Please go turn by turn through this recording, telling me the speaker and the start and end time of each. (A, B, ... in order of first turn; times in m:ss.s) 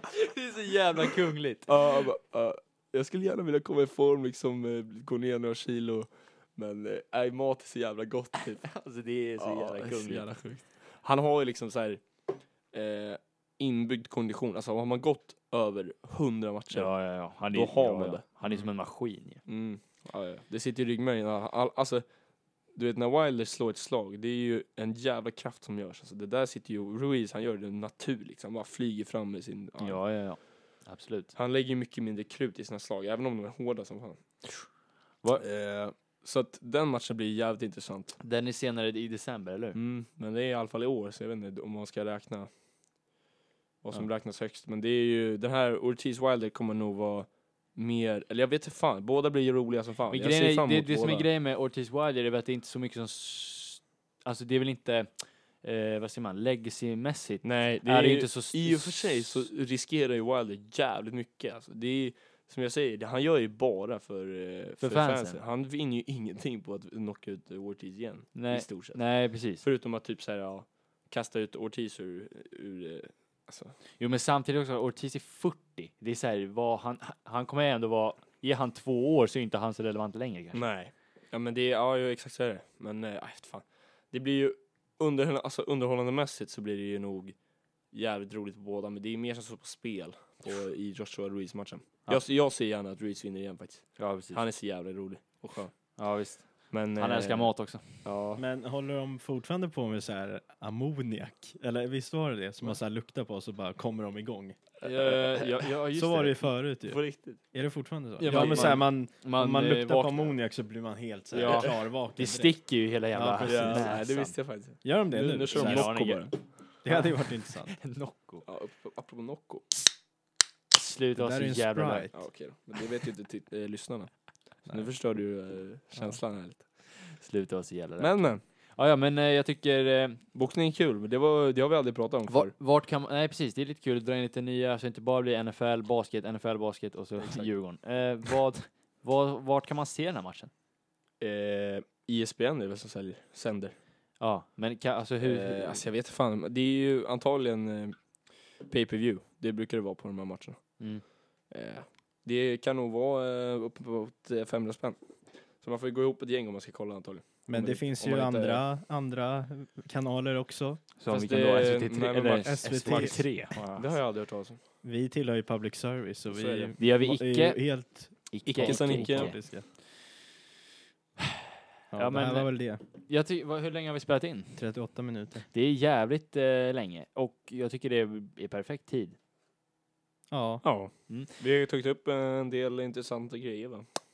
0:00.2-0:02.0 A
0:01.6-0:18.9 B
0:08.7-0:10.4 A
0:16.7-0:19.4 A
0:19.4-0:30.6 B
0:29.8-0:31.3 A
0:31.4-0:34.8 B
0:35.4-0:38.2 B
0:38.2-0:39.8 A
0:39.8-0:42.5 B
0:43.8-0:51.3 B
0:50.1-0:59.5 A
0:57.4-1:13.8 B
1:04.8-1:05.4 A
1:08.3-1:09.6 A
1:14.0-1:20.6 A
1:20.5-1:38.4 B
1:34.0-1:34.4 A
1:36.0-1:38.2 A
1:38.4-1:44.8 C
1:44.8-1:45.7 B
1:44.8-1:46.4 A
1:45.9-1:54.2 C
1:46.8-1:47.4 B
1:48.2-1:50.6 A
1:48.2-1:48.8 B
1:51.3-1:54.4 A
1:53.4-1:56.6 B
1:54.8-1:56.2 C
1:55.5-1:58.4 A
1:56.8-1:57.9 C
1:58.4-1:59.9 B
2:00.7-2:02.3 A
2:01.2-2:02.3 C
2:02.1-2:06.9 B
2:04.7-2:06.2 C
2:06.4-2:10.2 A
2:08.0-2:08.4 B
2:10.3-2:12.5 B
2:12.3-2:20.5 A
2:17.2-2:18.3 B
2:21.2-2:23.8 B
2:24.2-2:25.9 A
2:25.2-2:38.6 B
2:30.8-2:31.0 A
2:37.5-2:40.9 C
2:41.0-2:43.9 A
2:41.1-2:44.6 B
2:42.4-2:43.9 C
2:44.8-2:49.7 C
2:46.3-2:46.8 B
2:46.8-2:49.8 A
2:48.5-2:49.5 B
2:51.9-2:52.8 C
2:52.0-2:59.2 A
2:54.6-2:55.5 C
3:00.3-3:00.7 C
3:00.6-3:03.9 B